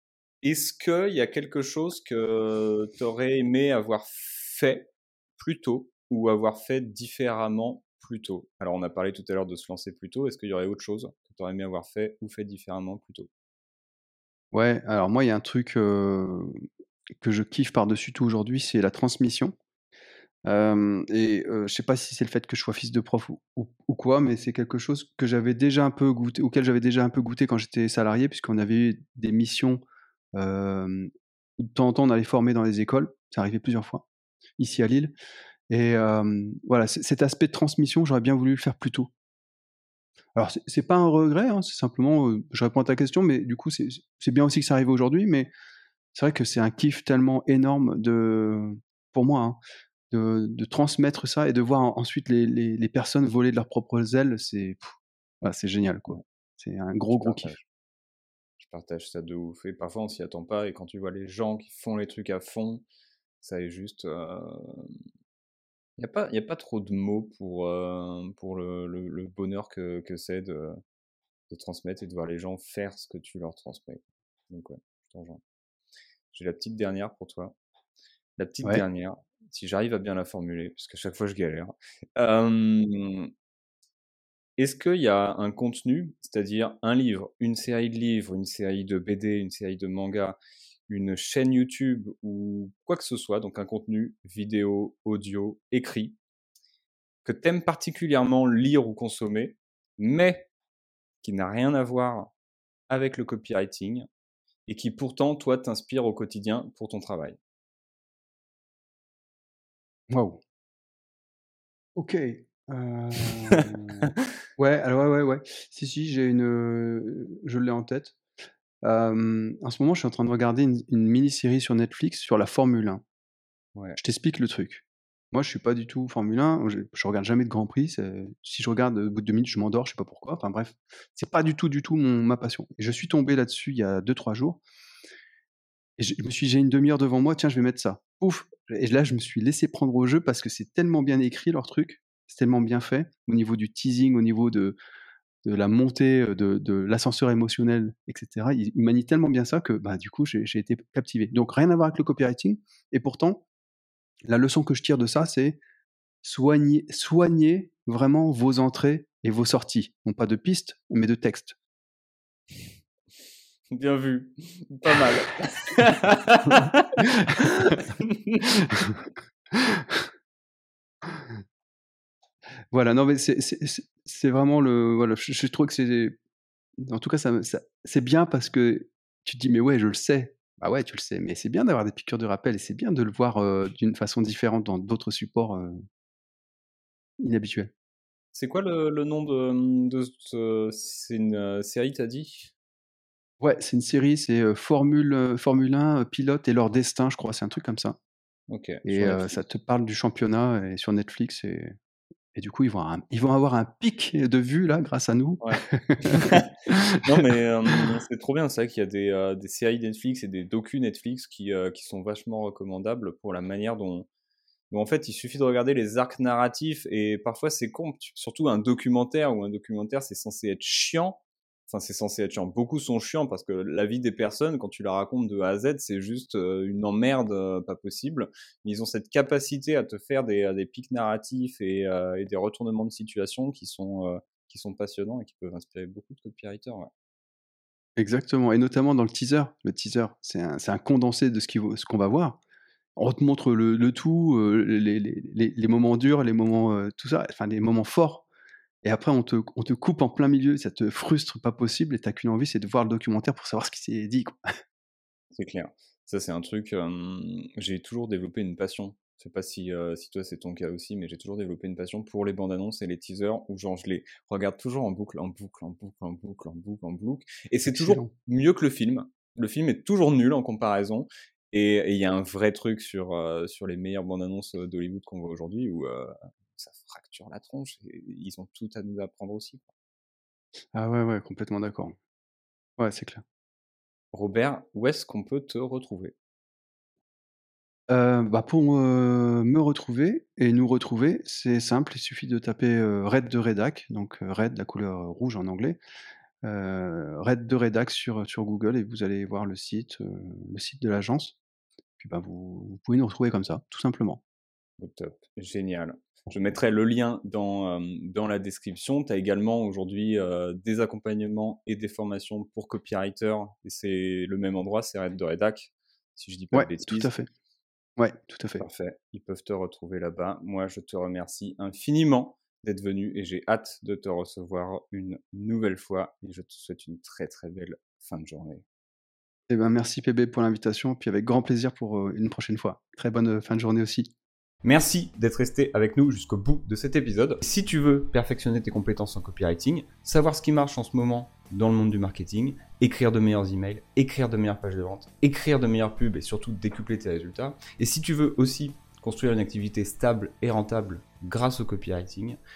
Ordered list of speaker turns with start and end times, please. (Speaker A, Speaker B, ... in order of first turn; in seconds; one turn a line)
Speaker A: 0.4-13.3
Speaker B: 14.5-16.6
Speaker B: 17.2-19.5
Speaker B: 20.4-29.8
Speaker B: 30.3-34.0
Speaker B: 34.6-35.1
Speaker B: 35.7-39.1
Speaker B: 40.3-45.5
Speaker B: 46.1-49.6
Speaker B: 50.1-57.5
Speaker A: 57.1-57.6
Speaker A: 58.6-62.8
Speaker A: 63.4-64.9
Speaker A: 66.0-70.8
Speaker A: 71.5-75.4
Speaker A: 76.3-77.5
Speaker A: 78.4-83.3
Speaker A: 84.6-96.2
Speaker A: 97.2-100.5
Speaker A: 101.2-102.3
Speaker A: 102.9-104.1
Speaker A: 104.7-107.4
Speaker B: 110.1-110.4
Speaker B: 112.0-118.2
Speaker B: 118.8-123.0
Speaker B: 124.0-134.6
Speaker B: 136.0-144.8
Speaker B: 145.4-153.4
Speaker B: 154.3-155.6
Speaker B: 156.2-161.6
Speaker A: 163.7-168.8
Speaker B: 166.5-167.8
Speaker B: 168.5-169.0
Speaker B: 169.5-170.1
Speaker B: 172.7-176.2
Speaker B: 176.8-185.8
Speaker B: 187.2-187.7
Speaker A: 188.3-192.5
Speaker B: 193.4-198.0
Speaker A: 198.5-199.4
Speaker B: 198.8-201.7
Speaker B: 202.3-207.2
Speaker A: 205.4-214.1
Speaker A: 214.7-236.9
Speaker B: 238.0-242.4
Speaker B: 243.0-248.2
Speaker B: 248.8-254.3
Speaker A: 255.3-279.7
Speaker B: 267.7-268.1
Speaker B: 280.7-281.9
Speaker B: 282.8-283.2
Speaker A: 284.1-286.1
Speaker B: 287.9-295.8
Speaker B: 296.4-301.4
Speaker B: 302.0-304.2
Speaker A: 304.8-317.1
Speaker B: 316.5-317.3
Speaker B: 318.0-318.6
Speaker A: 318.6-328.6
Speaker B: 329.5-334.1
Speaker A: 334.6-352.4